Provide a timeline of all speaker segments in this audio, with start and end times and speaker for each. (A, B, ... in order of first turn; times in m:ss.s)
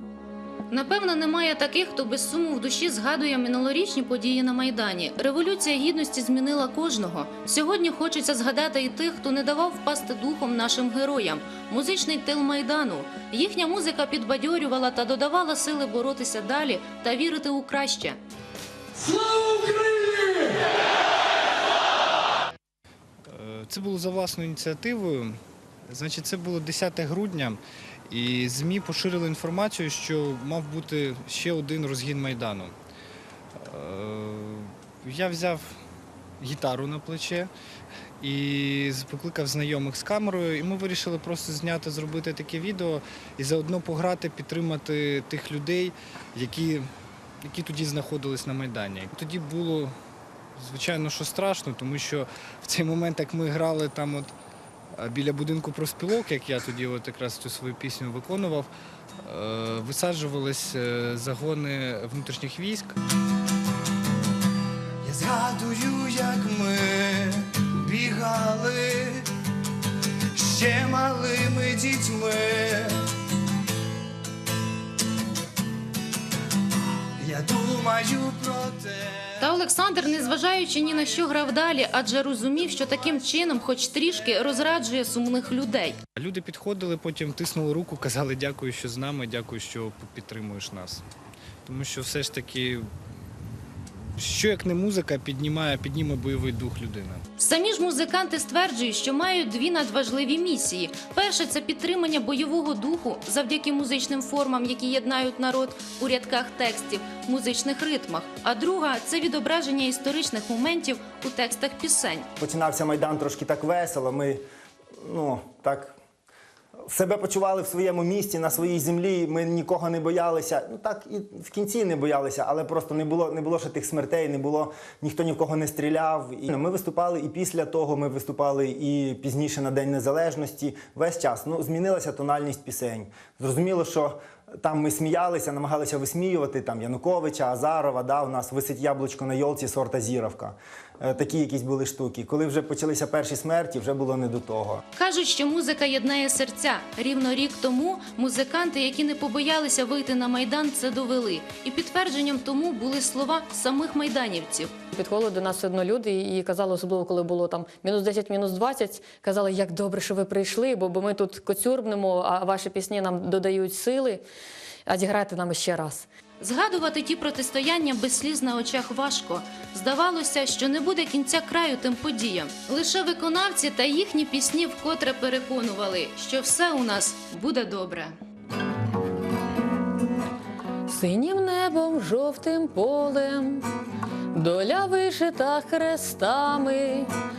0:00.7-0:18.2 A
0:23.3-0:32.7 B
0:33.6-0:35.8 B
0:36.4-0:37.5 B
0:38.2-0:46.9 B
0:47.4-0:49.9 B
0:50.6-0:54.3 B
0:55.0-0:58.7 B
0:59.2-1:03.0 B
1:05.0-1:09.3 C
1:10.3-1:13.0 C
1:17.2-1:19.4 C
1:19.4-1:26.0 A
1:26.2-1:31.0 B
1:31.6-1:32.9 B
1:34.2-1:37.2 B
1:37.4-1:52.3 A
1:52.4-1:54.4 D
1:55.0-1:55.9 D
1:56.9-2:24.8 D
2:25.0-2:34.7 A
2:34.9-2:44.2 E
2:44.8-2:46.1 E
2:46.4-2:58.2 A
3:00.9-3:03.6 E
3:04.3-3:07.1 E